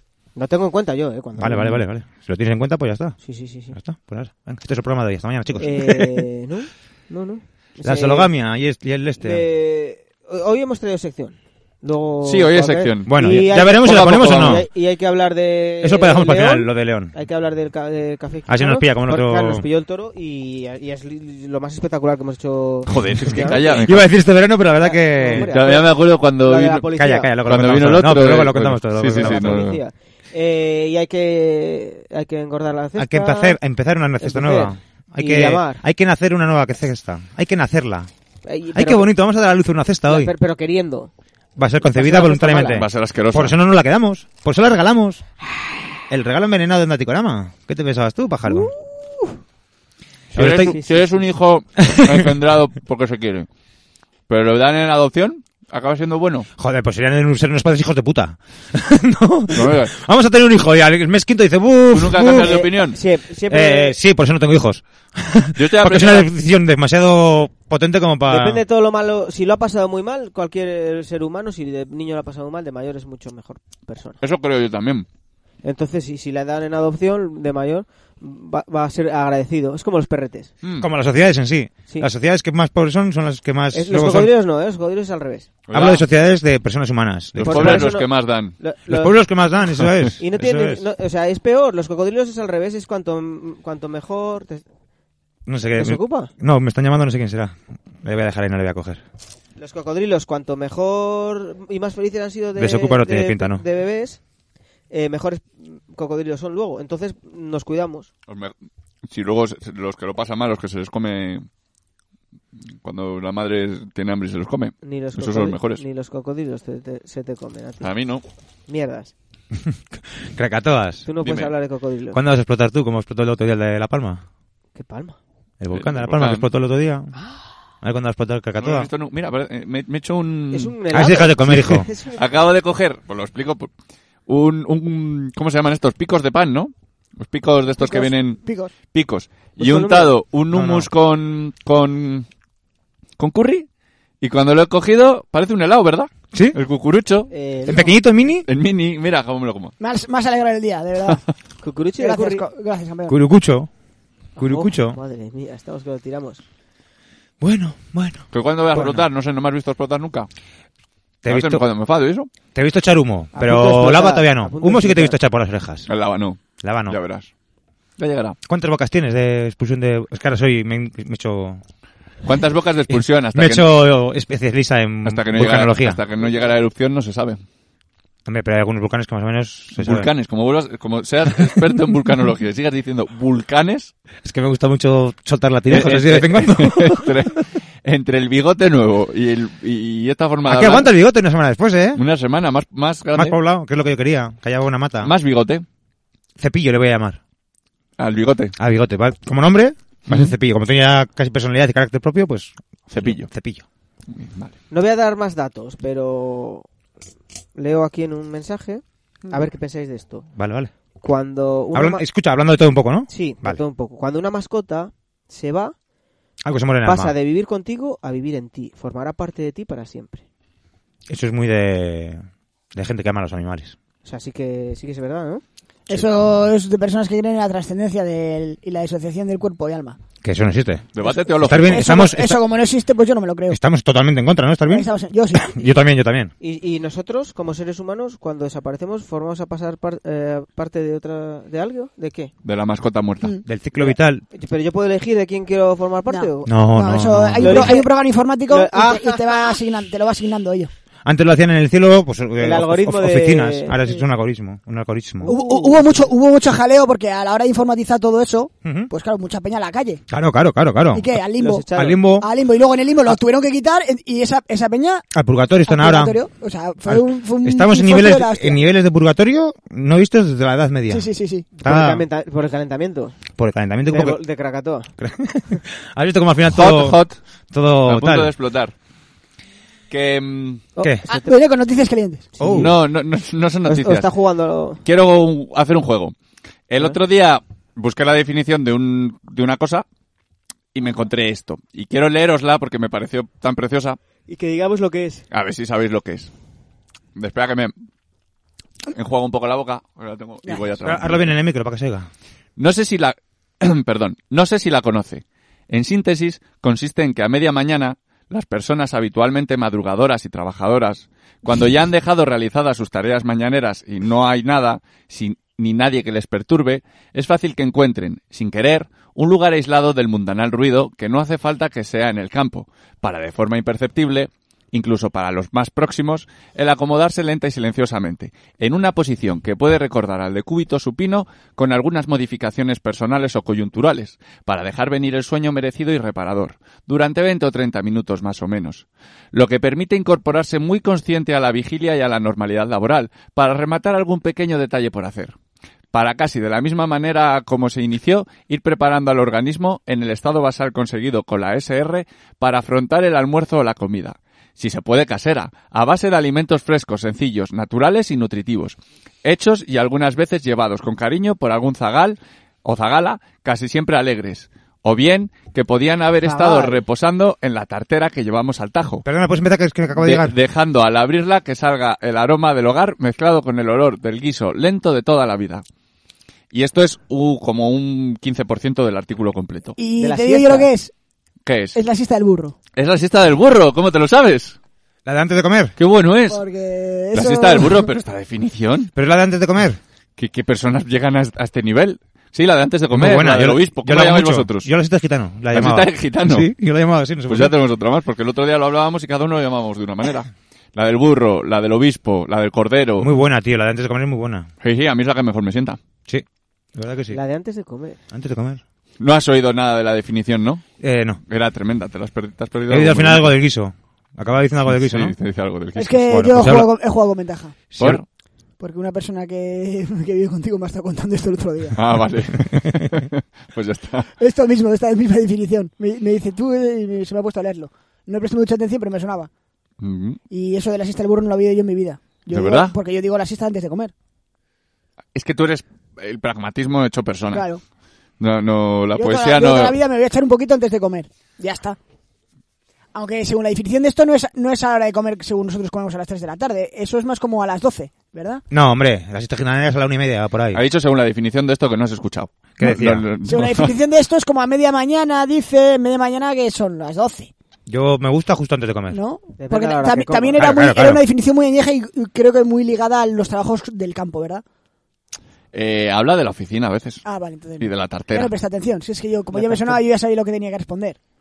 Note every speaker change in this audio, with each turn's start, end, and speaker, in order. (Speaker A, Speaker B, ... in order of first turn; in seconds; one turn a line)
Speaker A: 0.3-1.8
Speaker B: 1.4-3.2
Speaker A: 3.2-3.8
Speaker B: 3.7-6.0
Speaker A: 5.6-8.3
Speaker B: 7.8-9.4
Speaker A: 9.2-23.9
Speaker C: 12.2-14.6
Speaker B: 13.1-14.7
Speaker B: 15.8-17.1
Speaker B: 18.5-19.6
Speaker C: 22.9-24.1
Speaker B: 23.3-25.5
Speaker A: 24.8-27.3
Speaker C: 25.4-26.8
Speaker B: 26.9-29.7
Speaker C: 27.4-29.8
Speaker A: 29.1-33.6
Speaker B: 33.0-38.1
Speaker A: 34.2-35.8
Speaker A: 38.5-39.1
Speaker B: 38.7-40.3
Speaker A: 40.1-41.1
Speaker B: 41.6-45.2
Speaker A: 41.9-42.8
Speaker C: 42.7-43.5
Speaker B: 46.1-48.7
Speaker A: 48.5-49.4
Speaker B: 50.3-50.7
Speaker C: 50.3-53.5
Speaker A: 50.6-51.2
Speaker B: 51.8-52.3
Speaker C: 54.3-56.5
Speaker B: 56.6-62.6
Speaker C: 59.5-59.9
Speaker C: 61.9-63.0
Speaker A: 62.4-64.0
Speaker B: 63.5-68.6
Speaker C: 65.5-66.3
Speaker A: 68.3-74.2
Speaker C: 74.2-75.0
Speaker A: 75.6-80.5
Speaker C: 80.6-80.9
Speaker B: 80.8-84.3
Speaker A: 83.7-85.5
Speaker C: 85.7-86.0
Speaker B: 85.7-87.9
Speaker C: 87.3-88.5
Speaker A: 87.4-89.2
Speaker B: 88.9-90.8
Speaker A: 90.2-94.6
Speaker B: 95.5-99.0
Speaker A: 95.8-96.3
Speaker A: 99.6-104.2
Speaker B: 102.5-103.6
Speaker A: 104.9-108.1
Speaker C: 108.3-108.5
Speaker C: 109.1-111.5
Speaker C: 112.8-115.8
Speaker A: 114.8-117.9
Speaker C: 117.8-118.2
Speaker A: 118.7-119.1
Speaker B: 119.6-121.0
Speaker A: 121.0-122.2
Speaker C: 121.2-121.5
Speaker B: 122.1-124.2
Speaker A: 124.8-125.2
Speaker B: 125.6-127.1
Speaker C: 125.7-126.5
Speaker A: 127.1-127.4
Speaker B: 127.8-128.9
Speaker C: 128.6-130.7
Speaker A: 130.5-132.2
Speaker B: 130.9-131.9
Speaker C: 131.5-133.7
Speaker C: 134.3-142.3
Speaker D: 137.8-138.7
Speaker A: 139.6-140.1
Speaker B: 140.5-140.9
Speaker C: 143.2-143.7
Speaker C: 144.2-147.3
Speaker A: 147.3-148.0
Speaker B: 147.7-148.4
Speaker C: 148.4-149.7
Speaker D: 149.8-151.2
Speaker A: 151.6-152.4
Speaker D: 152.0-153.2
Speaker B: 153.1-153.7
Speaker A: 154.4-156.4
Speaker B: 154.4-155.0
Speaker B: 157.4-159.0
Speaker C: 158.3-160.3
Speaker B: 161.2-161.6
Speaker C: 161.2-162.3
Speaker B: 162.5-165.9
Speaker A: 163.3-165.2
Speaker C: 165.9-167.3
Speaker B: 166.6-167.0
Speaker C: 168.0-168.4
Speaker B: 168.5-171.6
Speaker C: 172.2-173.7
Speaker B: 172.9-176.0
Speaker C: 175.0-177.4
Speaker B: 178.3-180.1
Speaker C: 179.8-183.9
Speaker B: 184.2-187.2
Speaker C: 185.7-190.9
Speaker B: 190.4-192.0
Speaker C: 191.9-193.4
Speaker B: 193.1-195.1
Speaker C: 195.0-195.6
Speaker B: 196.4-197.2
Speaker C: 198.0-198.5
Speaker B: 198.6-203.6
Speaker C: 202.9-203.3
Speaker C: 204.1-204.5
Speaker A: 204.7-206.7
Speaker A: 207.6-210.2
Speaker B: 210.3-210.7
Speaker A: 211.0-212.1
Speaker B: 211.7-213.6
Speaker A: 213.1-215.7
Speaker B: 216.4-217.1
Speaker A: 216.8-220.2
Speaker B: 221.1-223.8
Speaker A: 224.0-225.4
Speaker D: 225.9-230.0
Speaker B: 230.2-230.9
Speaker C: 230.9-231.9
Speaker B: 231.4-232.4
Speaker D: 231.7-233.6
Speaker B: 233.5-236.3
Speaker D: 234.7-235.7
Speaker A: 236.4-242.3
Speaker C: 242.4-243.4
Speaker B: 243.4-244.2
Speaker A: 243.8-246.5
Speaker D: 246.1-250.7
Speaker B: 246.4-247.8
Speaker A: 247.4-247.9
Speaker A: 248.5-249.5
Speaker B: 251.0-255.3
Speaker A: 252.4-253.8
Speaker A: 255.2-256.1
Speaker D: 255.2-260.0
Speaker B: 258.6-258.9
Speaker B: 260.1-261.1
Speaker D: 260.9-265.0
Speaker A: 261.4-262.0
Speaker B: 261.7-262.3
Speaker B: 265.1-266.2
Speaker D: 265.7-268.6
Speaker B: 266.8-271.1
Speaker D: 270.9-271.5
Speaker A: 271.5-273.1
Speaker B: 271.6-272.0
Speaker B: 273.4-274.2
Speaker A: 273.9-274.9
Speaker B: 275.0-277.0
Speaker C: 276.5-277.1
Speaker B: 277.5-278.3
Speaker C: 277.9-278.7
Speaker C: 279.9-280.6
Speaker A: 280.8-281.4
Speaker D: 281.1-282.3
Speaker A: 282.4-282.8
Speaker B: 282.4-282.8
Speaker C: 282.5-284.1
Speaker A: 283.6-284.8
Speaker C: 284.8-286.1
Speaker C: 286.7-289.8
Speaker C: 290.7-294.0
Speaker A: 294.3-295.2
Speaker C: 295.3-296.3
Speaker C: 297.1-297.7
Speaker C: 298.9-301.3
Speaker B: 300.8-302.1
Speaker C: 302.6-345.3
Speaker C: 345.9-369.0
Speaker A: 366.2-366.8
Speaker B: 369.0-370.3
Speaker C: 369.9-375.6
Speaker C: 376.5-379.8
Speaker D: 379.8-380.9
Speaker A: 380.0-380.7
Speaker C: 381.4-381.8
Speaker D: 381.7-382.5
Speaker C: 382.8-384.6
Speaker B: 385.1-385.7
Speaker C: 385.8-386.4
Speaker D: 386.3-387.9
Speaker C: 387.1-388.9
Speaker B: 388.9-389.8
Speaker C: 390.2-394.7
Speaker B: 392.9-397.5
Speaker C: 395.5-396.5
Speaker C: 397.3-403.1
Speaker B: 403.0-404.5
Speaker C: 404.6-405.8
Speaker B: 406.1-407.2
Speaker A: 407.1-408.0
Speaker B: 408.1-408.6
Speaker C: 409.0-410.6
Speaker B: 410.8-411.2
Speaker C: 411.3-413.3
Speaker B: 412.7-415.1
Speaker C: 414.7-416.6
Speaker D: 415.8-417.6
Speaker B: 416.1-416.7
Speaker B: 417.7-418.0
Speaker C: 417.8-418.0
Speaker D: 418.6-421.8
Speaker C: 421.7-424.1
Speaker D: 424.2-429.3
Speaker C: 429.8-430.2
Speaker D: 430.3-433.9
Speaker C: 432.3-432.7
Speaker C: 435.1-437.5
Speaker D: 437.3-437.6
Speaker C: 438.2-439.8
Speaker D: 438.9-441.8
Speaker D: 442.9-448.4
Speaker B: 448.5-450.6
Speaker C: 450.5-453.7
Speaker B: 452.6-453.1
Speaker D: 453.2-457.3
Speaker B: 457.7-459.0
Speaker D: 458.9-464.4
Speaker A: 459.4-460.5
Speaker B: 460.4-461.0
Speaker C: 465.5-467.0
Speaker D: 467.0-471.0
Speaker C: 467.6-468.3
Speaker A: 469.3-469.8